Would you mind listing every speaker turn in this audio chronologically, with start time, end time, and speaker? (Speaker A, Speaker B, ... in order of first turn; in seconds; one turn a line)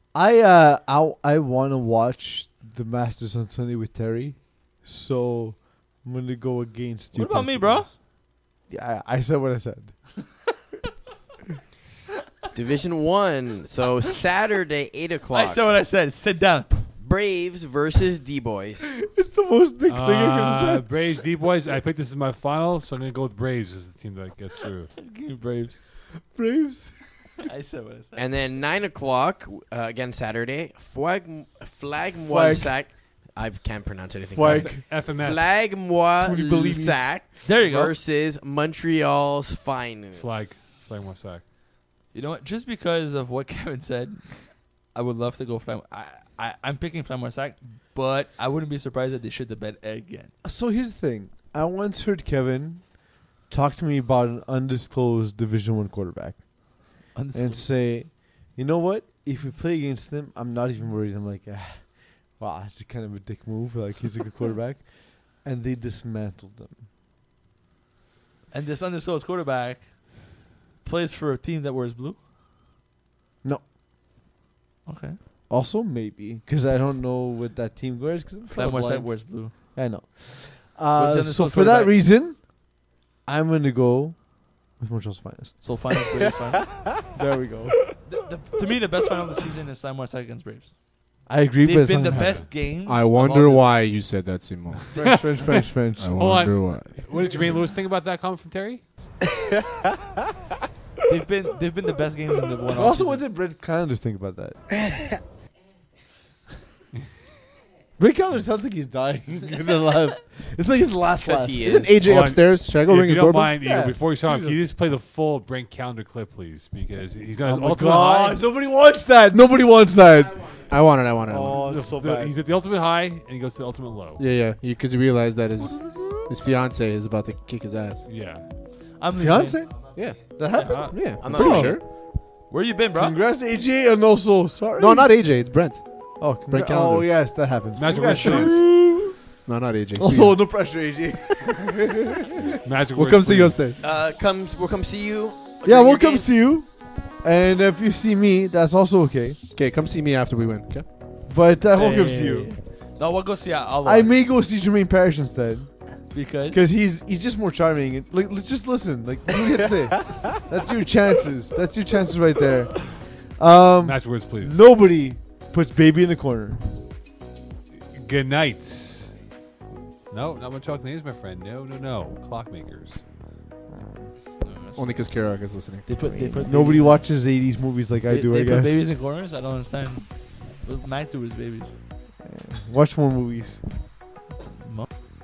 Speaker A: 0.1-7.9
Speaker B: 7.1-7.9
Speaker A: 8.7-10.2
Speaker C: 12.5-15.7
Speaker B: 15.3-16.8
Speaker C: 17.0-18.8
Speaker A: 18.9-20.9
Speaker D: 19.9-24.9
Speaker B: 25.0-25.8
Speaker A: 26.3-27.0
Speaker B: 27.5-28.2
Speaker C: 28.1-40.5
Speaker A: 32.3-32.7
Speaker A: 34.3-35.1
Speaker D: 34.4-35.5
Speaker A: 36.2-37.1
Speaker B: 37.4-37.9
Speaker D: 40.2-41.4
Speaker B: 42.1-50.3
Speaker A: 50.4-66.8
Speaker B: 57.1-57.7
Speaker B: 68.5-70.2
Speaker B: 70.8-72.2
Speaker A: 73.4-73.7
Speaker B: 74.9-75.2
Speaker A: 75.5-82.6
Speaker B: 78.5-79.5
Speaker B: 80.9-82.0
Speaker A: 83.2-85.6
Speaker B: 85.6-86.9
Speaker A: 87.1-87.8
Speaker B: 88.0-90.7
Speaker A: 91.3-92.4
Speaker B: 91.6-93.7
Speaker D: 92.1-92.4
Speaker E: 92.9-97.0
Speaker A: 94.9-96.3
Speaker D: 95.0-95.6
Speaker D: 96.1-98.8
Speaker B: 101.1-103.2
Speaker A: 102.7-104.6
Speaker A: 108.0-111.8
Speaker C: 111.2-112.0
Speaker E: 111.6-113.6
Speaker D: 112.0-118.4
Speaker A: 113.6-114.6
Speaker A: 117.4-120.6
Speaker E: 120.6-121.6
Speaker A: 121.3-122.3
Speaker D: 121.5-124.2
Speaker E: 124.2-128.1
Speaker D: 128.1-128.4
Speaker B: 129.0-129.7
Speaker A: 129.2-131.8
Speaker E: 129.9-131.8
Speaker B: 130.5-130.8
Speaker D: 130.6-131.0
Speaker C: 131.2-131.8
Speaker B: 132.5-133.2
Speaker A: 132.9-135.2
Speaker E: 134.8-137.3
Speaker A: 136.2-139.2
Speaker D: 137.8-138.6
Speaker E: 138.1-140.4
Speaker A: 140.0-142.4
Speaker D: 142.6-143.6
Speaker E: 142.9-143.8
Speaker C: 143.8-146.3
Speaker A: 145.6-149.4
Speaker E: 149.5-150.9
Speaker A: 151.3-152.5
Speaker B: 151.7-154.1
Speaker A: 153.8-155.7
Speaker B: 156.1-156.6
Speaker A: 156.5-166.6
Speaker D: 163.8-164.6
Speaker D: 167.9-169.1
Speaker D: 170.1-173.0
Speaker A: 173.7-174.1
Speaker B: 174.4-174.8
Speaker E: 174.8-176.4
Speaker B: 175.9-177.1
Speaker A: 176.0-178.8
Speaker B: 178.1-181.7
Speaker A: 182.2-183.6
Speaker B: 184.6-184.9